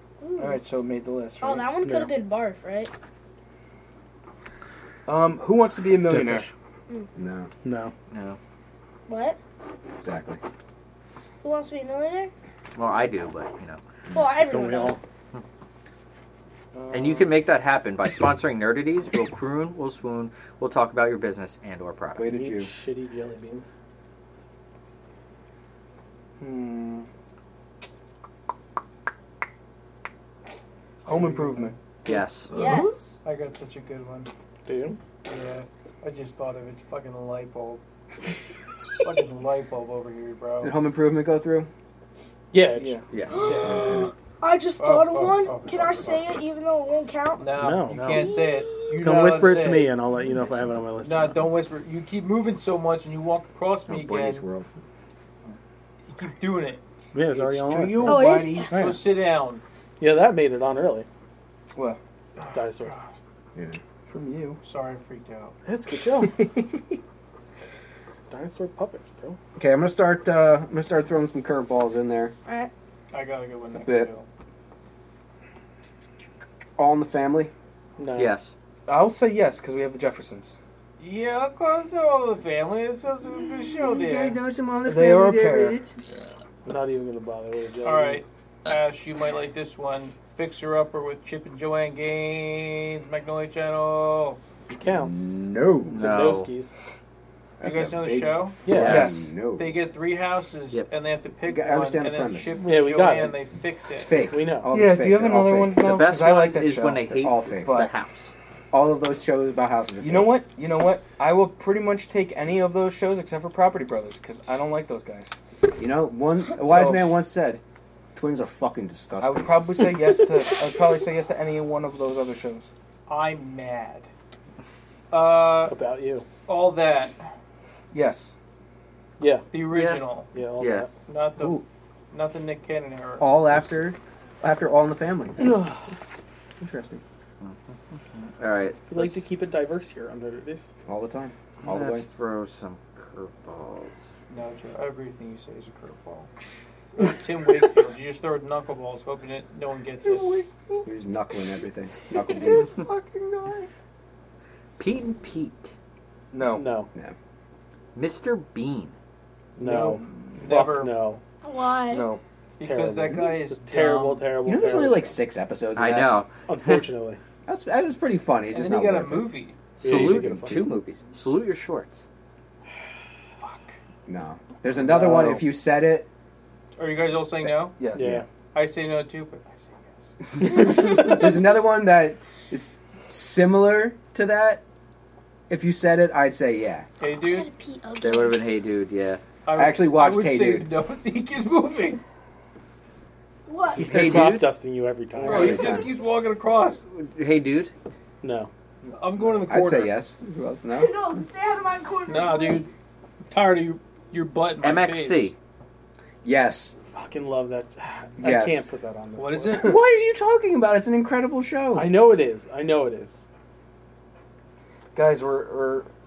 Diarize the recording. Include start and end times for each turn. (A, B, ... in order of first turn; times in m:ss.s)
0:00.2-0:00.6 A
0:00.4-0:01.7 B
0:01.4-0:02.9 A
0:01.8-0:02.1 C
0:05.1-0:06.5 B
0:06.1-0:06.5 C
0:07.2-0:07.5 D
0:07.6-0:07.9 C
0:08.1-0:08.4 E
0:09.1-0:09.4 A
0:10.0-0:10.4 D
0:11.4-0:12.3 A
0:12.8-0:13.8 E
0:14.1-0:15.0 A
0:14.4-0:15.0 C
0:16.7-0:17.4 B
0:16.9-0:22.3 E
0:22.2-0:22.7 D
0:22.3-0:23.7 C
0:26.4-0:27.1 B
0:31.1-0:31.8 B
0:32.0-0:32.5 E
0:32.5-0:33.0 A
0:33.2-0:34.3 F
0:34.7-0:35.0 C
0:35.3-0:37.8 F
0:39.0-0:40.8 F
0:40.6-0:41.7 D
0:42.5-0:43.0 C
0:42.8-0:43.0 B
0:43.1-0:43.4 E
0:43.3-0:47.6 A
0:43.4-0:44.1 F
0:44.8-0:46.2 F
0:47.4-0:49.9 F
0:47.6-0:48.2 C
0:48.1-0:48.7 A
0:49.0-0:51.5 C
0:51.0-0:54.5 F
0:53.9-0:54.7 D
0:56.1-0:56.8 F
0:57.1-0:58.9 C
0:57.3-0:59.1 B
0:58.0-0:58.9 A
0:58.7-0:59.6 F
1:00.0-1:01.1 C
1:01.7-1:02.0 B
1:02.4-1:03.1 F
1:02.5-1:03.0 C
1:04.1-1:04.6 B
1:04.6-1:05.6 F
1:05.6-1:06.4 C
1:08.1-1:09.4 C
1:09.6-1:12.4 D
1:12.5-1:12.7 A
1:13.1-1:14.3 F
1:13.8-1:14.1 D
1:16.8-1:17.5 D
1:18.0-1:18.4 C
1:18.2-1:18.5 E
1:18.9-1:20.6 B
1:21.0-1:24.4 F
1:23.7-1:26.0 D
1:24.8-1:25.8 B
1:26.6-1:28.2 C
1:27.8-1:34.4 F
1:34.7-1:35.3 C
1:34.8-1:36.0 D
1:35.9-1:36.5 E
1:35.9-1:36.7 C
1:37.6-1:39.8 D
1:37.6-1:38.6 F
1:38.7-1:39.1 C
1:38.7-1:39.1 E
1:38.8-1:39.3 B
1:39.5-1:44.2 F
1:41.4-1:42.6 D
1:42.6-1:43.4 C
1:43.9-1:45.9 D
1:44.3-1:44.7 C
1:44.7-1:47.9 B
1:45.8-1:48.3 E
1:47.1-1:47.8 D
1:48.7-1:50.4 D
1:50.0-1:55.4 B
1:55.8-1:57.6 D
1:56.6-1:57.1 B
1:58.2-1:59.6 D
1:59.2-2:02.7 B
2:03.1-2:04.1 F
2:05.1-2:05.8 F
2:05.7-2:06.3 C
2:06.5-2:07.2 F
2:07.9-2:08.4 B
2:09.2-2:09.5 C
2:09.5-2:10.3 F
2:09.7-2:10.0 E
2:10.3-2:10.9 C
2:10.6-2:10.9 E
2:11.1-2:13.5 F
2:11.4-2:11.6 D
2:13.2-2:15.7 D
2:15.4-2:15.9 C
2:16.6-2:17.0 D
2:17.4-2:19.2 E
2:18.9-2:20.7 C
2:20.9-2:22.1 D
2:21.6-2:24.0 E
2:24.3-2:26.3 F
2:27.0-2:30.4 F
2:30.0-2:30.8 B
2:30.8-2:32.7 D
2:32.3-2:33.7 B
2:34.8-2:35.7 E
2:36.3-2:36.7 B
2:36.5-2:36.9 C
2:38.0-2:39.0 E
2:39.6-2:41.2 C
2:39.6-2:41.1 F
2:41.4-2:42.1 A
2:41.9-2:42.2 B
2:42.6-2:44.4 F
2:42.6-2:45.2 C
2:44.4-2:46.2 D
2:45.8-2:46.8 E
2:46.5-2:47.2 C
2:47.5-2:50.7 D
2:48.5-2:49.6 F
2:49.8-2:52.0 E
2:49.8-2:50.7 C
2:53.4-2:53.7 F
2:54.1-2:56.1 D
2:54.8-2:55.5 C
2:56.8-2:57.8 F
2:57.8-2:58.2 B
2:58.0-2:58.2 C
2:58.0-2:58.2 D
2:58.5-3:00.1 F
3:00.4-3:04.6 D
3:05.5-3:06.9 D
3:07.0-3:07.5 F
3:07.0-3:08.4 A
3:08.0-3:09.2 E
3:09.4-3:12.0 F
3:09.6-3:10.7 D
3:13.5-3:14.0 A
3:13.8-3:14.5 E
3:13.8-3:15.8 C
3:13.9-3:14.3 D
3:15.2-3:16.8 F
3:15.3-3:15.9 D
3:16.9-3:17.7 E
3:18.2-3:18.5 C
3:18.8-3:19.4 B
3:18.9-3:20.0 F
3:19.5-3:21.0 D
3:20.7-3:22.7 A
3:22.1-3:22.7 F
3:23.3-3:25.3 F
3:24.6-3:25.4 E
3:26.2-3:26.8 D
3:26.9-3:29.8 C
3:28.2-3:28.7 D
3:29.2-3:29.8 F
3:29.6-3:32.0 D
3:31.7-3:33.2 C
3:34.9-3:35.9 B